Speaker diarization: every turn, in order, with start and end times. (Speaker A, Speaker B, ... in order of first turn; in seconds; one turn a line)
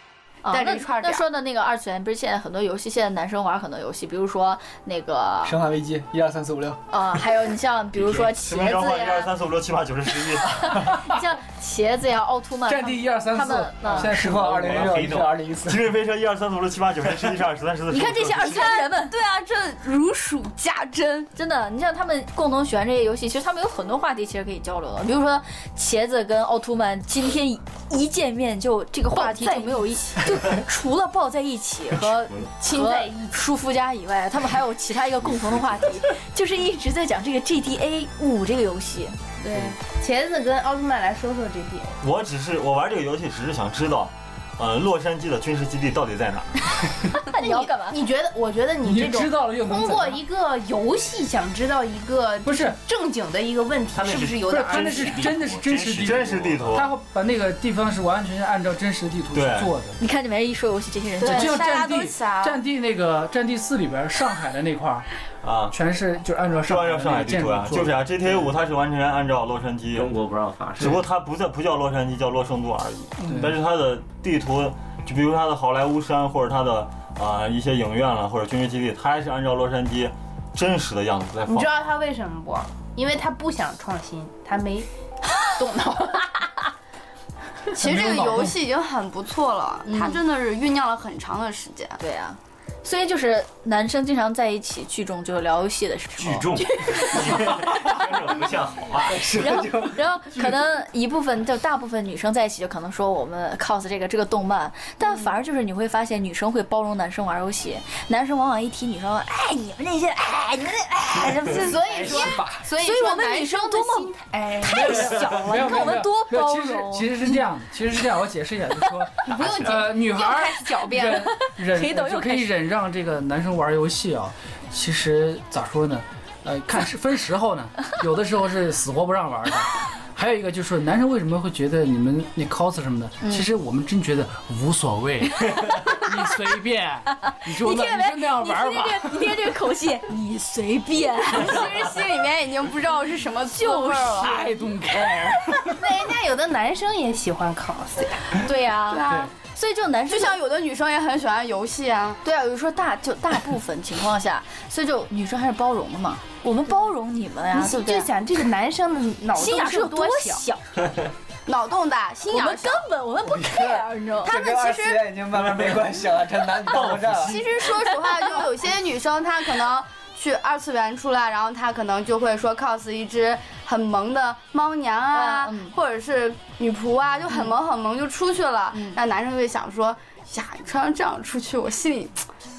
Speaker A: 0.4-5.6
Speaker B: 0.5-1.2
Speaker C: 5.4-6.8
Speaker A: 6.9-9.3
Speaker D: 8.0-11.0
Speaker A: 10.6-14.1
Speaker E: 12.7-14.9
Speaker C: 13.9-15.9
Speaker F: 14.6-15.4
Speaker D: 14.7-15.1
Speaker D: 15.6-18.7
Speaker A: 17.9-19.1
Speaker B: 18.4-21.3
Speaker A: 21.4-39.2
Speaker B: 29.1-29.9
Speaker F: 32.0-32.5
Speaker G: 32.6-33.4
Speaker F: 35.3-35.9
Speaker G: 39.4-42.0
Speaker D: 42.0-46.5
Speaker A: 47.2-48.0
Speaker G: 47.4-55.3
Speaker E: 48.8-50.2
Speaker E: 52.4-52.8
Speaker F: 53.9-56.8
Speaker E: 54.5-60.0
Speaker D: 55.9-57.0
Speaker D: 59.3-59.7
Speaker A: 60.0-61.8
Speaker E: 61.2-65.1
Speaker B: 61.2-62.6
Speaker D: 65.4-65.8
Speaker E: 65.7-68.1
Speaker D: 66.6-70.2
Speaker F: 69.9-71.0
Speaker D: 70.8-81.7
Speaker E: 73.2-73.5
Speaker G: 81.4-84.9
Speaker G: 85.6-86.4
Speaker B: 87.7-92.0
Speaker E: 87.8-88.6
Speaker A: 89.8-90.2
Speaker A: 92.0-97.5
Speaker F: 96.2-99.4
Speaker C: 99.1-100.5
Speaker A: 99.4-112.2
Speaker G: 111.5-115.8
Speaker C: 112.1-112.6
Speaker A: 112.8-114.1
Speaker A: 114.7-117.2
Speaker E: 115.2-139.4
Speaker G: 119.2-121.3
Speaker A: 121.6-122.5
Speaker A: 133.2-133.5
Speaker A: 137.3-141.7
Speaker B: 141.3-144.4
Speaker A: 143.5-144.4
Speaker E: 144.2-145.7
Speaker G: 145.8-148.4
Speaker A: 148.4-149.0
Speaker B: 148.9-149.3
Speaker A: 149.6-150.4
Speaker B: 150.1-152.2
Speaker A: 152.2-158.1
Speaker G: 157.5-160.4
Speaker A: 159.4-160.6
Speaker B: 161.4-162.9
Speaker A: 162.3-164.6
Speaker C: 163.2-167.4
Speaker B: 164.3-165.0
Speaker D: 165.3-165.9
Speaker D: 166.7-167.4
Speaker B: 167.2-182.2
Speaker A: 167.6-168.4
Speaker A: 175.1-175.7